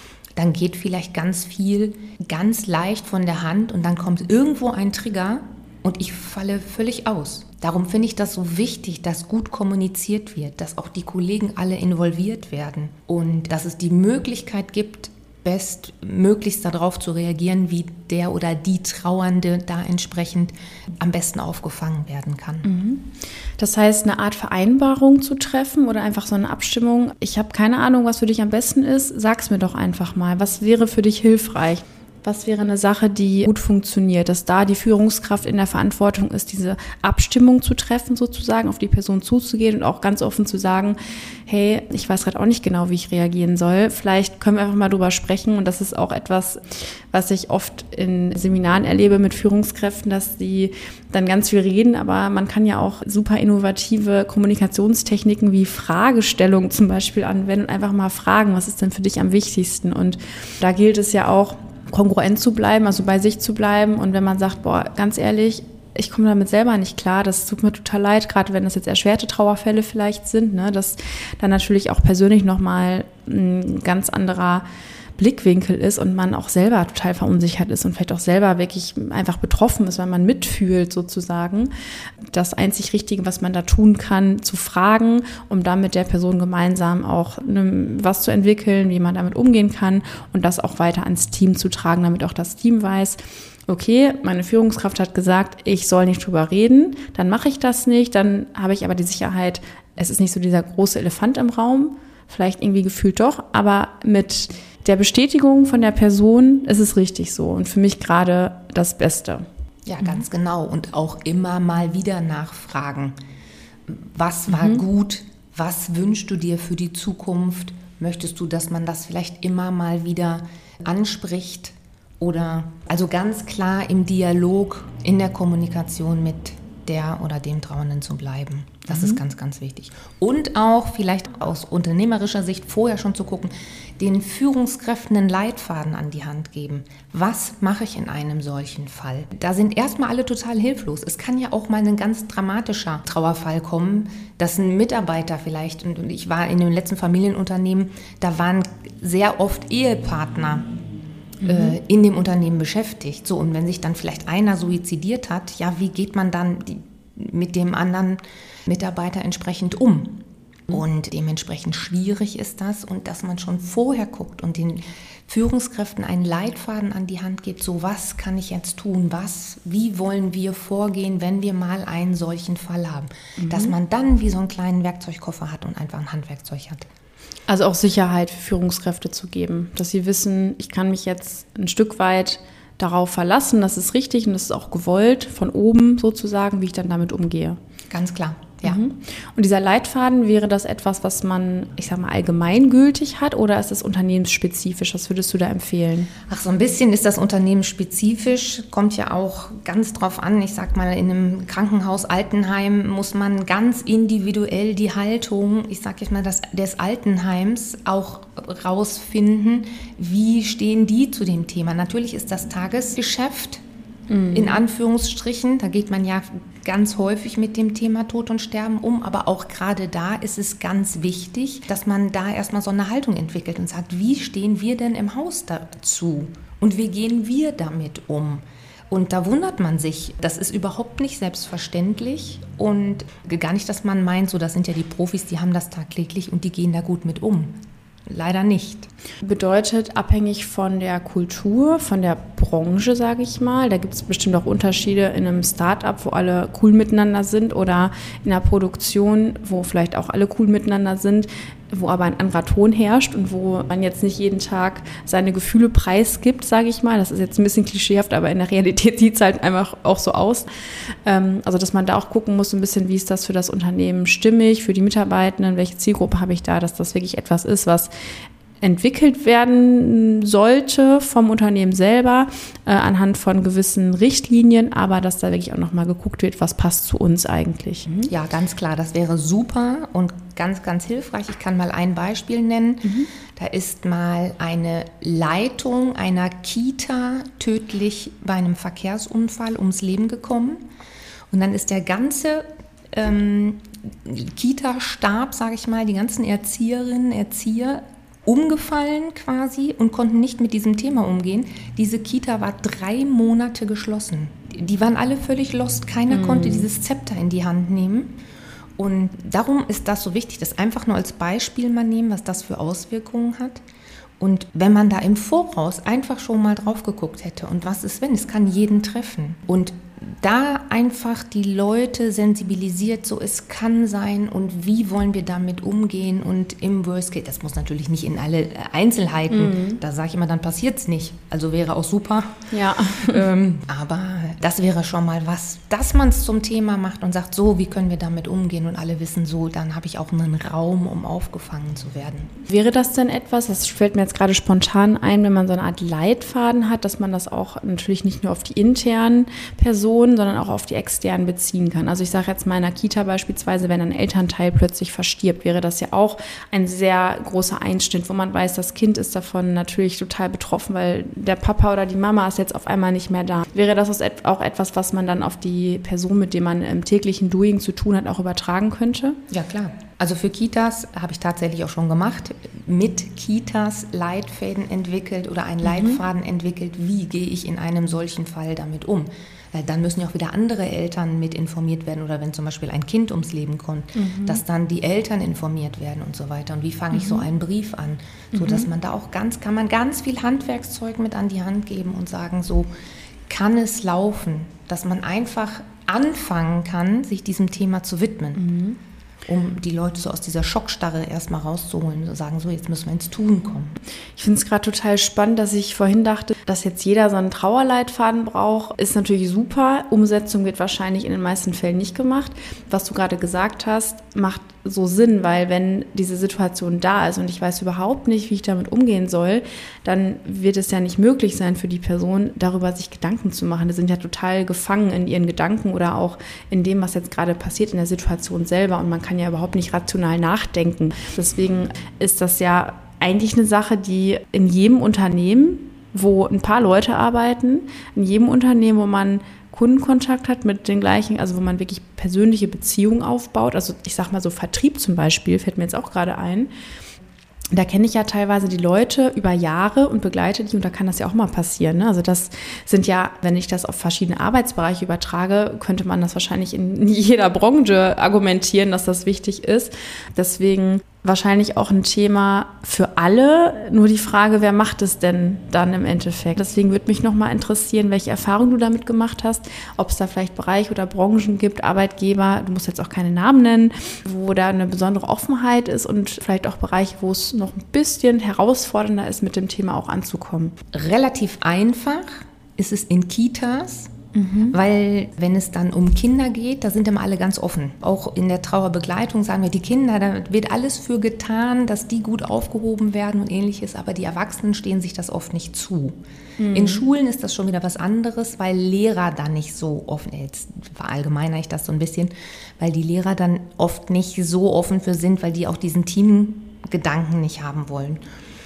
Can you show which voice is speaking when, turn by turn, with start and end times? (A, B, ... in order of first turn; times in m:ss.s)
0:00.4-0:22.7 A
0:22.6-1:14.6 B
1:15.2-1:21.7 B
1:22.3-1:49.4 B
1:49.8-1:53.1 A
1:53.9-2:30.7 A
1:54.5-1:54.8 B
2:08.9-2:09.2 B
2:31.4-2:31.8 B
2:31.4-2:56.8 A
2:53.4-2:53.8 B
2:57.5-3:07.6 B
3:07.9-3:08.8 A
3:08.6-3:16.1 B
3:16.2-3:33.6 A
3:34.1-3:34.6 B
3:34.3-3:57.6 A
3:58.1-3:58.9 A
3:59.2-4:27.9 B
4:28.6-4:38.1 B
4:38.1-4:50.6 A
4:42.8-4:43.1 B
4:51.3-5:08.1 A
5:06.1-5:06.7 B
5:08.8-5:13.6 A
5:14.2-5:42.3 A
5:29.3-5:29.8 B
5:32.5-5:33.2 B
5:42.5-6:09.2 B
6:09.3-6:32.7 A
6:15.6-6:16.0 B
6:23.9-6:24.4 B
6:26.9-6:27.2 B
6:28.3-6:28.7 B
6:33.3-6:38.4 A
6:38.4-6:38.8 B
6:39.2-6:43.8 A
6:44.2-7:26.5 B
7:27.5-8:00.5 B
8:00.7-8:03.9 A
8:04.1-8:04.6 B
8:04.5-8:16.0 A
8:16.4-8:16.8 B
8:16.5-8:28.0 A